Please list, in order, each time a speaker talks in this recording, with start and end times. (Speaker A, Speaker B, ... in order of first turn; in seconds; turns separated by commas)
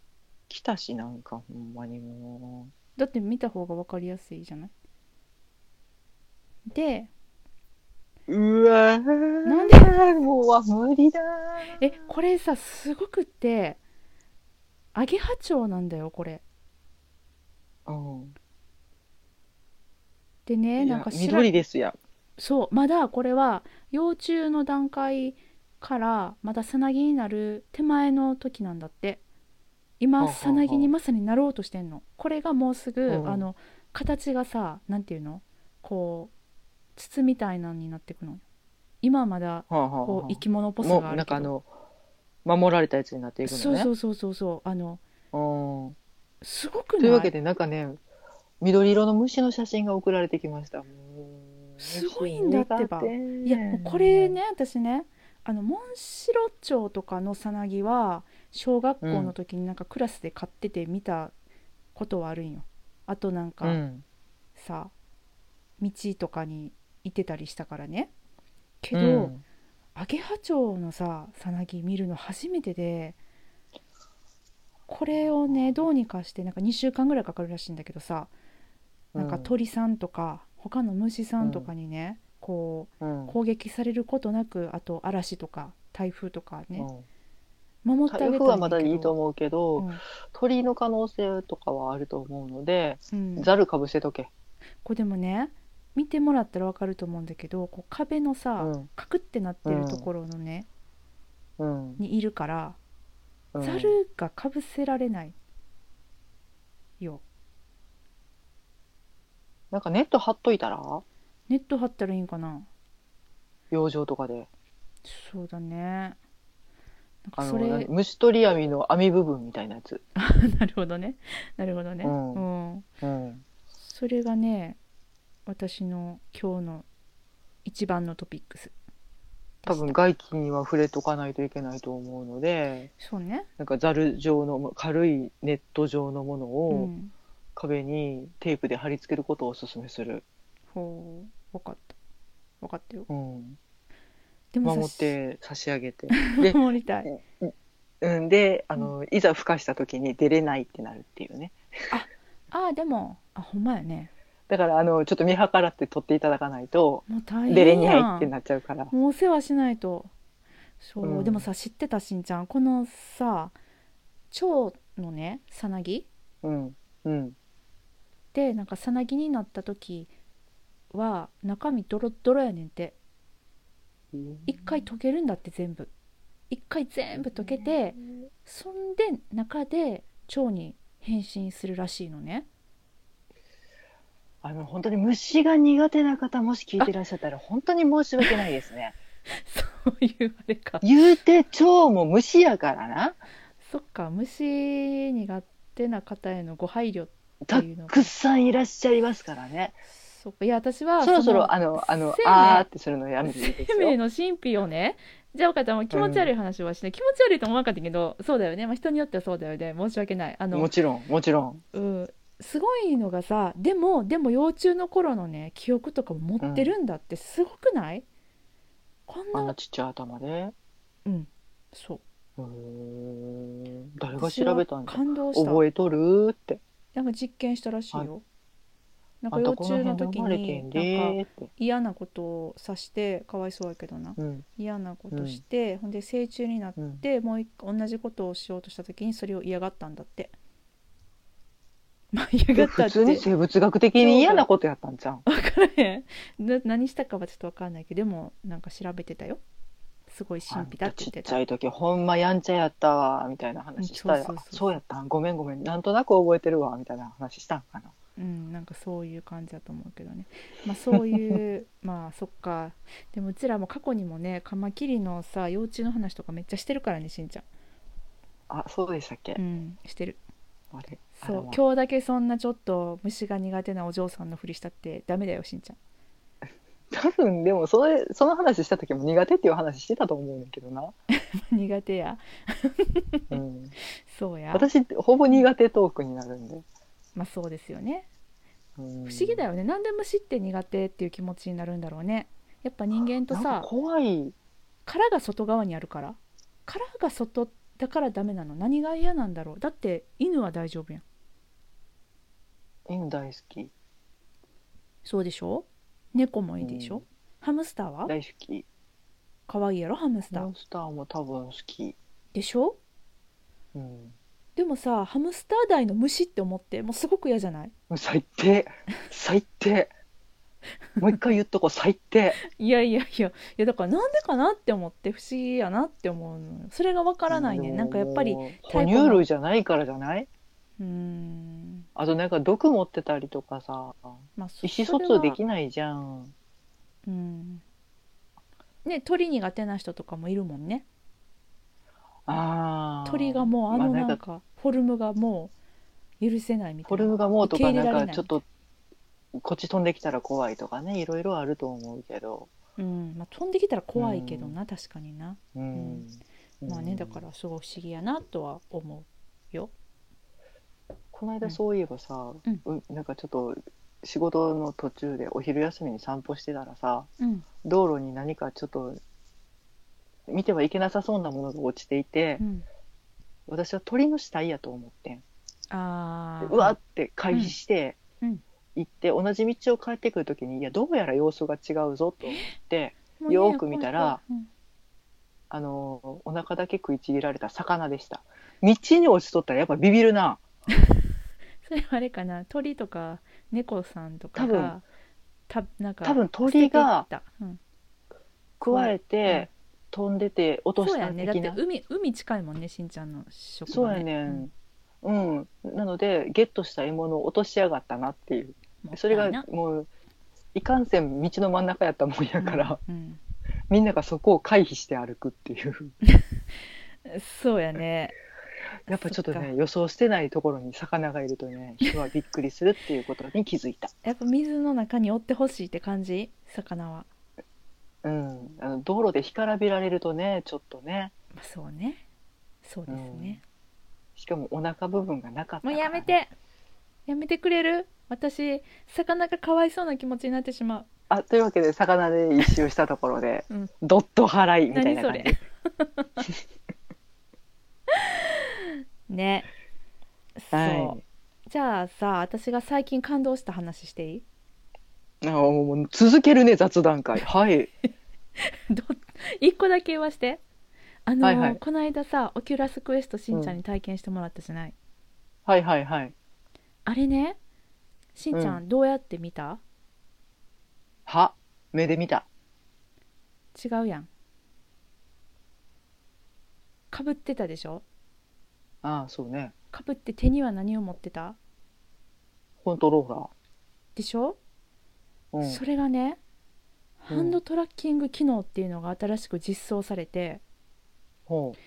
Speaker A: 0.5-2.7, Speaker B: 3.0-4.7, Speaker B: 6.7-7.1, Speaker A: 8.3-11.9, Speaker B: 9.4-10.0, Speaker B: 11.8-13.8, Speaker B: 14.9-16.4, Speaker A: 17.9-18.4, Speaker B: 20.5-21.5, Speaker A: 20.8-22.0, Speaker B: 22.4-29.2, Speaker B: 30.0-36.3, Speaker A: 30.2-30.9, Speaker A: 33.1-33.5, Speaker B: 37.0-38.4, Speaker B: 39.0-41.5, Speaker A: 39.7-41.7, Speaker A: 42.5-43.9, Speaker B: 43.5-45.0, Speaker A: 45.3-46.0, Speaker B: 46.4-47.3, Speaker A: 47.0-48.0, Speaker A: 48.6-54.4, Speaker B: 51.8-61.3, Speaker A: 59.0-59.3, Speaker B: 62.0-63.8, Speaker A: 63.6-64.0, Speaker B: 64.6-64.9, Speaker B: 65.8-68.1, Speaker B: 68.8-69.3, Speaker A: 68.9-69.4, Speaker B: 70.0-73.2, Speaker B: 74.9-78.3, Speaker A: 75.5-75.8, Speaker A: 79.2-79.5, Speaker B: 79.2-86.9, Speaker A: 81.4-81.7, Speaker A: 83.0-83.4, Speaker A: 86.8-87.0, Speaker B: 87.8-89.1, Speaker A: 88.1-94.3, Speaker B: 89.8-90.0, Speaker B: 93.1-93.5, Speaker B: 94.8-100.7, Speaker A: 98.6-98.9, Speaker A: 99.7-100.1, Speaker A: 101.6-102.0, Speaker B: 102.0-102.8, Speaker A: 103.5-104.0, Speaker B: 103.6-105.3, Speaker A: 109.7-111.0, Speaker B: 111.5-112.7, Speaker A: 113.7-114.5, Speaker B: 115.0-116.2, Speaker B: 117.2-117.9, Speaker A: 117.4-120.0, Speaker B: 120.2-122.9, Speaker A: 122.0-122.5, Speaker A: 123.0-123.4, Speaker B: 123.8-124.8, Speaker B: 125.5-126.8, Speaker B: 127.7-128.7, Speaker B: 129.6-130.0, Speaker A: 129.7-132.9, Speaker B: 133.0-133.5, Speaker A: 133.6-136.9, Speaker B: 136.7-137.1, Speaker A: 137.6-140.2, Speaker B: 140.7-142.0, Speaker B: 142.6-143.1, Speaker A: 143.1-143.6, Speaker B: 144.5-145.2, Speaker A: 144.6-151.6, Speaker B: 146.1-147.1, Speaker B: 151.9-154.1, Speaker A: 154.5-158.9, Speaker B: 157.1-158.3, Speaker B: 158.9-160.1, Speaker B: 160.8-163.6, Speaker A: 161.0-161.5, Speaker B: 164.3-166.1, Speaker A: 166.4-167.3, Speaker B: 168.3-170.1, Speaker B: 170.9-173.0, Speaker A: 174.1-174.6, Speaker B: 174.5-175.9, Speaker B: 176.5-182.5, Speaker A: 184.4-189.0, Speaker B: 189.3-190.8, Speaker A: 190.8-193.2, Speaker B: 193.6-198.1, Speaker A: 197.4-199.8, Speaker B: 199.9-202.7, Speaker A: 201.0-204.0, Speaker B: 203.2-210.7, Speaker A: 205.9-206.3, Speaker A: 210.5-211.6, Speaker B: 211.7-218.1, Speaker A: 216.4-216.7, Speaker B: 219.1-219.6, Speaker A: 219.3-220.5, Speaker B: 221.1-222.0, Speaker A: 222.4-226.6, Speaker B: 224.2-225.6, Speaker B: 226.9-228.2, Speaker B: 229.2-240.3, Speaker A: 229.3-231.5, Speaker A: 234.2-234.4, Speaker A: 235.1-235.4, Speaker A: 236.8-237.0, Speaker B: 242.1-243.3, Speaker A: 242.6-245.2, Speaker B: 244.0-244.5, Speaker B: 245.3-249.4, Speaker B: 250.1-251.4, Speaker A: 250.5-257.9, Speaker B: 253.8-254.8, Speaker B: 258.2-267.4, Speaker A: 260.9-261.4, Speaker A: 268.5-269.4, Speaker B: 269.4-270.2, Speaker A: 270.7-271.6, Speaker B: 271.2-275.8, Speaker A: 276.9-280.9, Speaker B: 281.1-283.4, Speaker A: 283.3-283.7, Speaker B: 284.1-284.7, Speaker A: 284.5-286.6, Speaker B: 287.2-288.1, Speaker A: 288.8-289.5, Speaker B: 289.1-293.7, Speaker A: 293.3-294.4, Speaker B: 294.9-301.0, Speaker A: 302.9-303.7, Speaker B: 305.0-308.1, Speaker A: 306.6-307.0, Speaker A: 308.1-308.7, Speaker B: 309.5-310.5, Speaker A: 310.3-312.0, Speaker B: 312.3-312.8, Speaker A: 313.7-314.2, Speaker B: 314.6-317.7, Speaker A: 317.9-319.9, Speaker B: 321.0-321.4, Speaker A: 321.0-322.4, Speaker B: 322.5-329.2, Speaker A: 327.3-330.3, Speaker B: 330.8-331.9, Speaker A: 332.0-336.3, Speaker B: 334.4-335.4, Speaker B: 337.1-337.6, Speaker B: 338.9-340.9, Speaker A: 342.3-344.2, Speaker B: 343.1-345.5, Speaker B: 346.2-348.4, Speaker A: 346.9-348.4, Speaker A: 349.4-352.5, Speaker B: 352.8-356.1, Speaker A: 354.0-354.6, Speaker A: 355.6-357.2, Speaker B: 356.6-359.7, Speaker A: 361.1-367.1, Speaker B: 367.2-367.5, Speaker A: 367.6-369.0, Speaker A: 370.3-372.4, Speaker B: 372.4-372.6, Speaker A: 373.5-375.2, Speaker B: 375.7-376.8, Speaker A: 376.4-378.0, Speaker A: 378.8-384.2, Speaker B: 382.2-382.6, Speaker B: 383.2-384.5, Speaker A: 385.5-390.4, Speaker B: 390.7-391.1, Speaker B: 391.6-394.8, Speaker A: 394.4-394.8, Speaker B: 395.5-397.6, Speaker A: 396.0-397.1, Speaker A: 398.6-401.6, Speaker B: 398.7-399.5, Speaker B: 400.8-404.5, Speaker A: 403.7-404.5, Speaker A: 405.0-409.9, Speaker B: 408.8-409.5, Speaker A: 410.6-412.8, Speaker B: 412.4-413.2, Speaker A: 413.7-415.9, Speaker B: 416.0-418.1, Speaker A: 418.9-423.9, Speaker B: 418.9-419.5, Speaker B: 424.1-427.1, Speaker A: 428.0-431.1, Speaker B: 431.4-432.0, Speaker B: 432.6-433.4, Speaker A: 432.9-433.4, Speaker A: 434.2-436.1, Speaker B: 435.6-436.3, Speaker B: 437.1-440.9, Speaker A: 441.1-445.4, Speaker B: 444.7-446.3, Speaker B: 447.9-448.6, Speaker B: 449.1-449.5, Speaker B: 450.4-454.2, Speaker A: 450.5-451.0, Speaker A: 455.2-457.7, Speaker B: 458.4-460.4, Speaker B: 461.1-464.8, Speaker A: 461.2-461.6, Speaker A: 463.3-463.6, Speaker A: 465.5-466.1, Speaker B: 466.9-467.4, Speaker B: 468.2-469.6, Speaker A: 468.3-468.6, Speaker A: 471.1-472.3, Speaker B: 473.6-474.1, Speaker B: 476.9-477.8, Speaker A: 478.8-479.5, Speaker B: 479.7-481.4, Speaker A: 482.6-483.3, Speaker B: 484.0-484.4, Speaker A: 485.3-485.6, Speaker B: 485.4-486.2, Speaker B: 487.0-490.4, Speaker A: 487.1-487.4, Speaker A: 491.3-491.6